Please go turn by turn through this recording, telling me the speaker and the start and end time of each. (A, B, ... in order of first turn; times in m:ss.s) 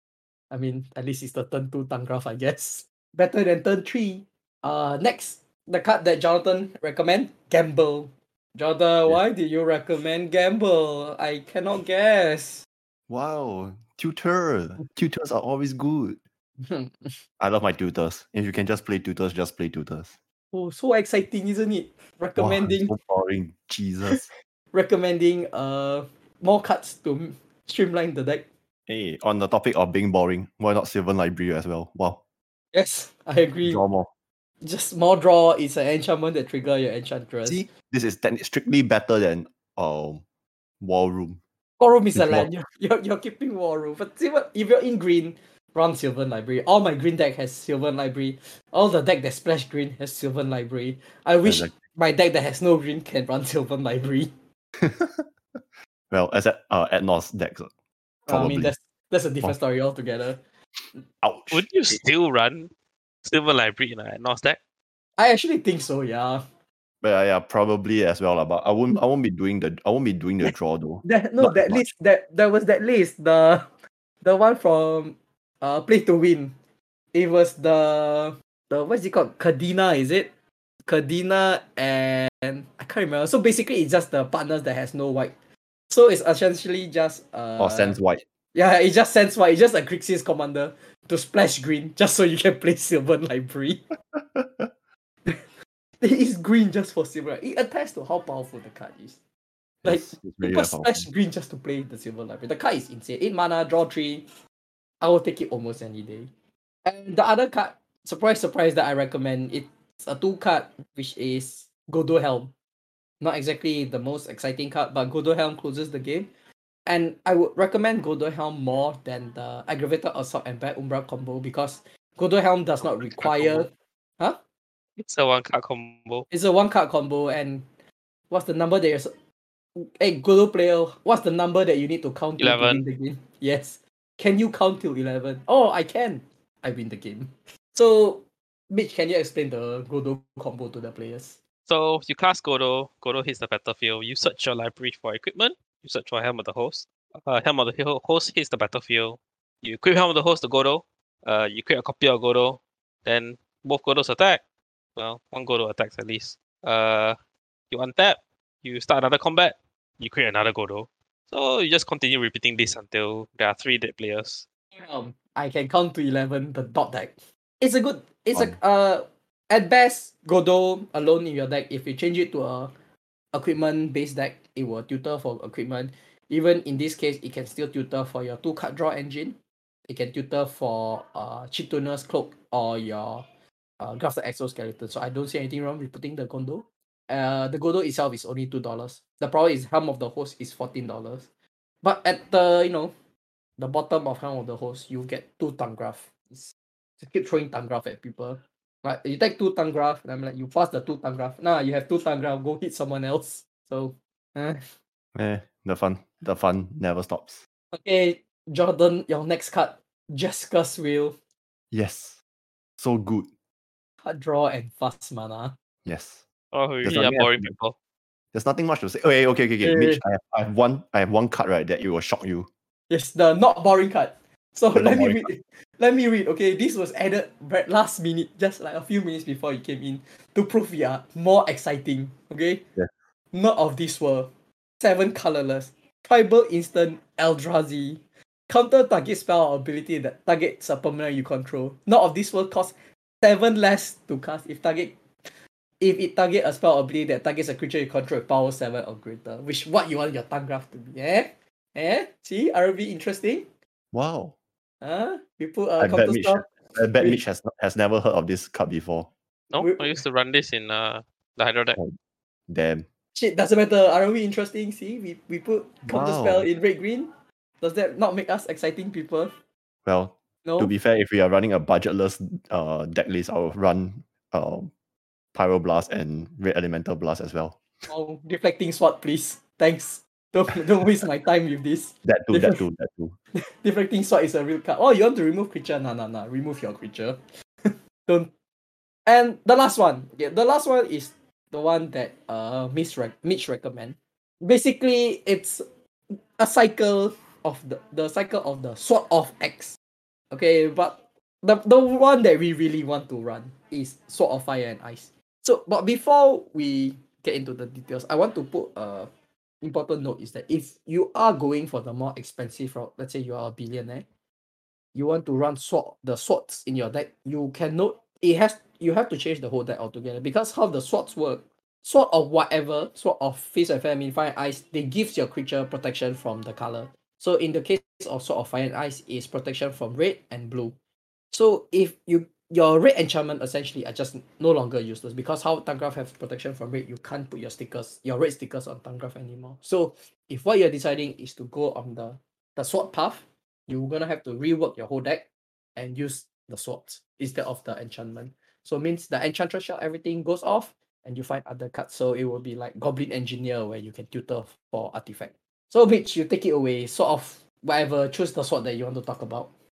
0:00.5-0:12.7 A
0:13.1-0:16.2 B
0:16.6-0:17.1 A
0:17.4-0:20.2 B
0:20.5-0:22.9 A
0:22.4-0:24.3 B
0:24.1-0:28.4 A
0:28.9-0:32.2 B
0:32.7-0:33.8 A
0:33.6-0:34.1 B
0:34.6-0:37.6 A
0:37.4-0:40.2 B
0:40.8-0:41.4 B
0:41.8-0:54.3 A
0:42.2-0:42.5 B
0:51.4-0:51.7 B
0:54.8-0:55.3 B
0:56.1-0:57.7 B
0:58.3-0:58.7 B
0:58.3-1:00.4 A
1:01.2-1:02.0 B
1:01.5-1:02.7 C
1:03.2-1:04.6 C
1:05.2-1:06.4 A
1:07.0-1:11.9 B
1:10.4-1:16.5 A
1:17.1-1:20.3 A
1:20.9-1:25.3 A
1:25.9-1:28.0 A
1:27.6-1:28.2 B
1:28.5-1:33.8 A
1:34.1-1:34.7 B
1:36.0-1:39.2 A
1:39.8-1:41.1 B
1:39.8-1:44.3 A
1:45.0-1:46.3 A
1:46.8-1:52.5 A
1:53.2-1:56.3 A
1:56.9-2:03.7 A
2:03.0-2:03.7 C
2:05.0-2:06.3 C
2:06.3-2:07.6 A
2:08.3-2:09.1 A
2:09.8-2:21.4 A
2:12.4-2:12.8 C
2:21.7-2:34.4 C
2:35.0-2:37.2 C
2:37.7-2:44.4 C
2:44.8-2:52.7 A
2:53.3-3:03.2 A
3:03.8-3:11.3 A
3:11.8-3:12.9 A
3:13.6-3:24.7 A
3:25.2-3:27.4 B
3:27.7-3:31.2 A
3:31.7-3:32.2 B
3:32.8-3:33.3 B
3:34.0-3:35.6 A
3:35.8-3:36.2 B
3:36.5-3:37.8 C
3:36.8-3:37.5 B
3:38.3-3:42.5 B
3:39.6-3:40.0 A
3:42.9-3:52.6 A
3:44.7-3:45.3 B
3:53.3-4:04.9 A
4:05.8-4:13.5 A
4:13.9-4:14.4 B
4:14.8-4:17.2 A
4:15.8-4:19.1 B
4:19.5-4:21.8 C
4:19.6-4:20.0 A
4:22.5-4:22.9 B
4:23.2-4:29.3 A
4:25.9-4:26.5 B
4:29.8-4:34.7 B
4:30.4-4:30.7 A
4:35.3-4:37.6 B
4:37.9-4:42.6 A
4:42.0-4:43.2 B
4:43.4-4:48.3 A
4:49.1-4:59.8 A
5:00.3-5:09.1 A
5:09.6-5:14.0 A
5:15.0-5:30.8 A
5:31.3-5:59.5 A